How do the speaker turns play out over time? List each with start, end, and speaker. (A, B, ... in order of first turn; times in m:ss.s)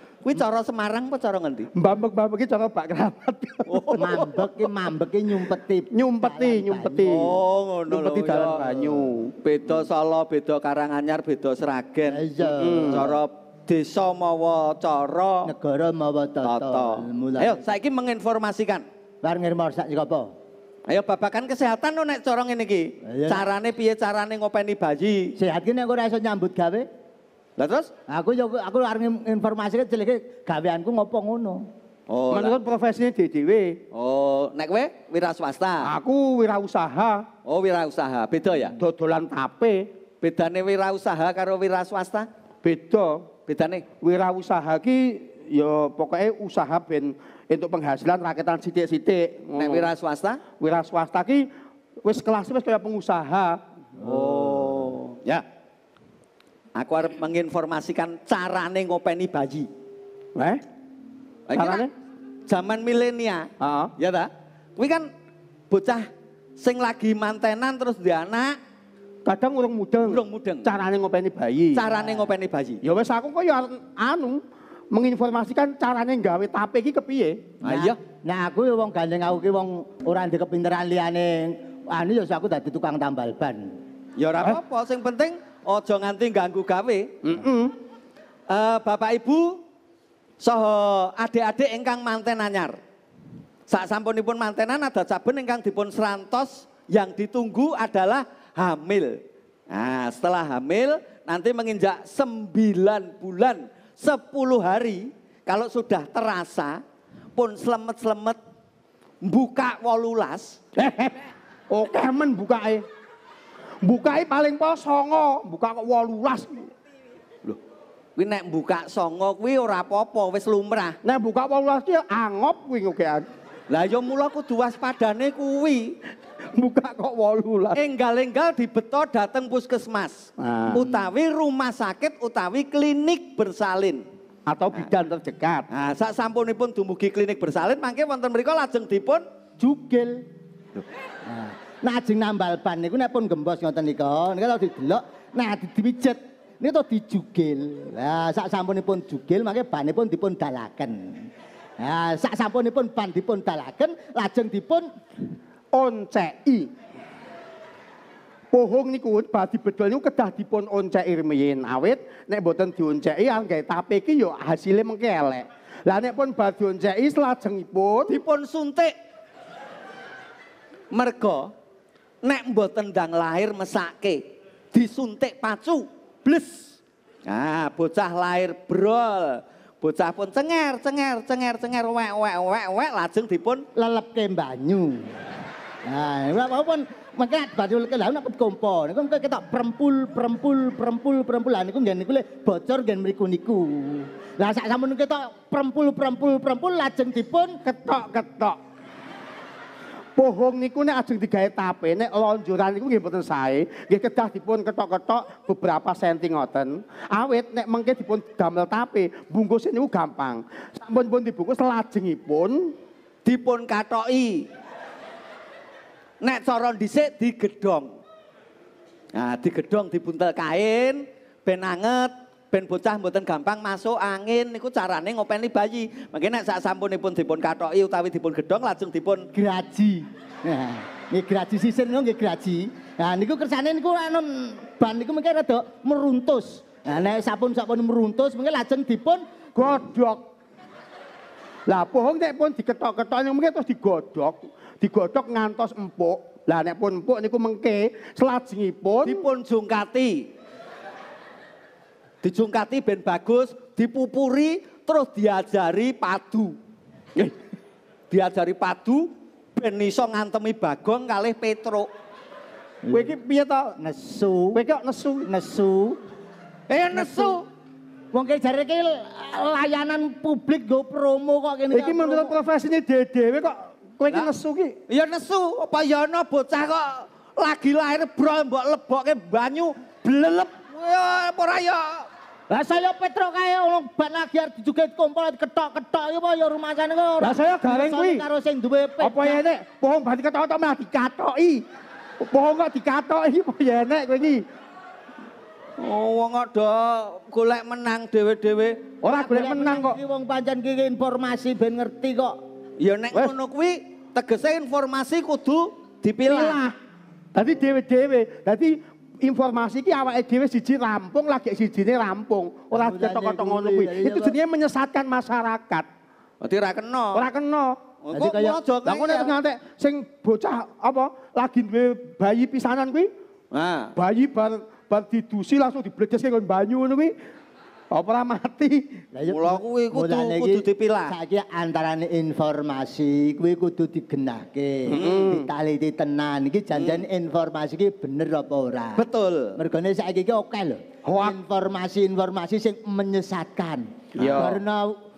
0:00.2-0:01.7 A
0:01.8-0:04.2 B
0:03.7-0:04.4 A
0:04.0-0:07.2 C
0:05.9-0:07.4 B
0:07.0-0:08.8 A
0:07.9-0:09.3 B
0:09.4-0:15.5 A
0:12.1-0:13.2 C
0:12.6-0:13.1 B
0:15.4-0:17.7 C
0:16.4-0:18.8 A
0:19.2-0:20.3 C
0:20.9-0:25.3 A
0:23.1-0:23.5 C
0:25.4-0:26.9 C
0:27.6-0:27.9 A
0:28.1-0:31.7 C
0:32.1-0:32.6 A
0:32.3-0:33.8 B
0:33.9-0:35.9 A
0:35.8-0:37.2 B
0:37.4-0:38.8 A
0:38.8-0:39.8 B
0:40.2-0:42.3 A
0:42.6-0:43.2 B
0:43.5-0:43.8 A
0:44.0-0:49.9 B
0:49.6-0:50.4 A
0:50.6-0:51.4 B
0:52.0-0:54.6 B
0:54.0-0:55.4 A
0:54.0-0:54.7 C
0:56.7-0:59.7 A
1:00.4-1:00.6 B
1:01.5-1:01.8 A
1:01.5-1:01.9 B
1:02.5-1:05.1 A
1:03.6-1:03.9 B
1:05.7-1:08.6 A
1:09.2-1:11.8 B
1:10.0-1:10.7 A
1:11.7-1:12.8 A
1:11.9-1:12.3 C
1:12.8-1:14.4 B
1:14.9-1:17.4 B
1:17.6-1:23.7 C
1:17.6-1:18.0 A
1:24.2-1:27.1 A
1:27.2-1:27.7 B
1:28.5-1:29.6 A
1:30.4-1:32.8 A
1:33.7-1:39.1 A
1:39.7-1:46.8 A
1:47.4-1:48.4 A
1:49.2-1:50.6 A
1:50.8-1:52.8 B
1:53.8-1:56.7 B
1:58.2-2:01.0 A
2:01.0-2:03.2 B
2:03.7-2:05.9 A
2:06.5-2:07.8 B
2:07.7-2:14.0 A
2:10.4-2:10.9 B
2:14.5-2:15.6 B
2:15.7-2:19.2 A
2:19.6-2:20.2 C
2:21.2-2:34.9 C
2:35.7-2:36.7 B
2:38.5-2:48.2 B
2:48.1-2:48.9 A
2:50.9-2:51.5 A
2:52.2-2:56.7 A
2:57.3-3:03.6 A
3:03.7-3:05.1 C
3:05.8-3:17.6 C
3:17.6-3:18.6 B
3:20.2-3:32.7 B
3:33.2-3:34.4 A
3:36.2-3:37.9 A
3:39.1-3:49.3 A
3:49.3-3:59.2 C
3:59.5-4:00.2 B
4:01.7-4:09.2 B
4:09.0-4:10.3 A
4:12.2-4:16.6 A
4:18.1-4:21.9 A
4:22.8-4:23.2 C
4:22.9-4:23.8 B
4:23.8-4:24.6 C
4:24.5-4:25.3 B
4:25.2-4:26.0 C
4:26.7-4:27.4 A
4:27.0-4:27.4 C
4:28.1-4:32.4 C
4:31.7-4:34.7 B
4:34.9-4:42.1 A
4:42.5-4:49.4 C
4:47.2-4:48.2 B
4:49.0-4:51.6 B
4:52.3-4:54.4 B
4:55.8-4:58.8 A
4:59.0-5:00.0 B
4:59.0-5:02.4 C
5:02.8-5:06.6 A
5:06.2-5:06.7 B
5:07.3-5:15.8 B
5:12.7-5:14.4 C
5:16.4-5:17.3 A
5:17.1-5:17.8 B
5:18.0-5:19.3 A
5:18.1-5:18.6 C
5:18.8-5:23.1 B
5:23.5-5:23.9 A
5:24.0-5:27.1 B
5:27.9-5:29.0 B
5:29.1-5:45.0 C
5:29.3-5:31.1 A
5:34.9-5:35.5 B
5:34.9-5:35.3 A
5:36.7-5:37.0 A
5:39.0-5:39.6 A
5:41.0-5:41.4 B
5:44.2-5:44.5 A
5:44.2-5:44.6 B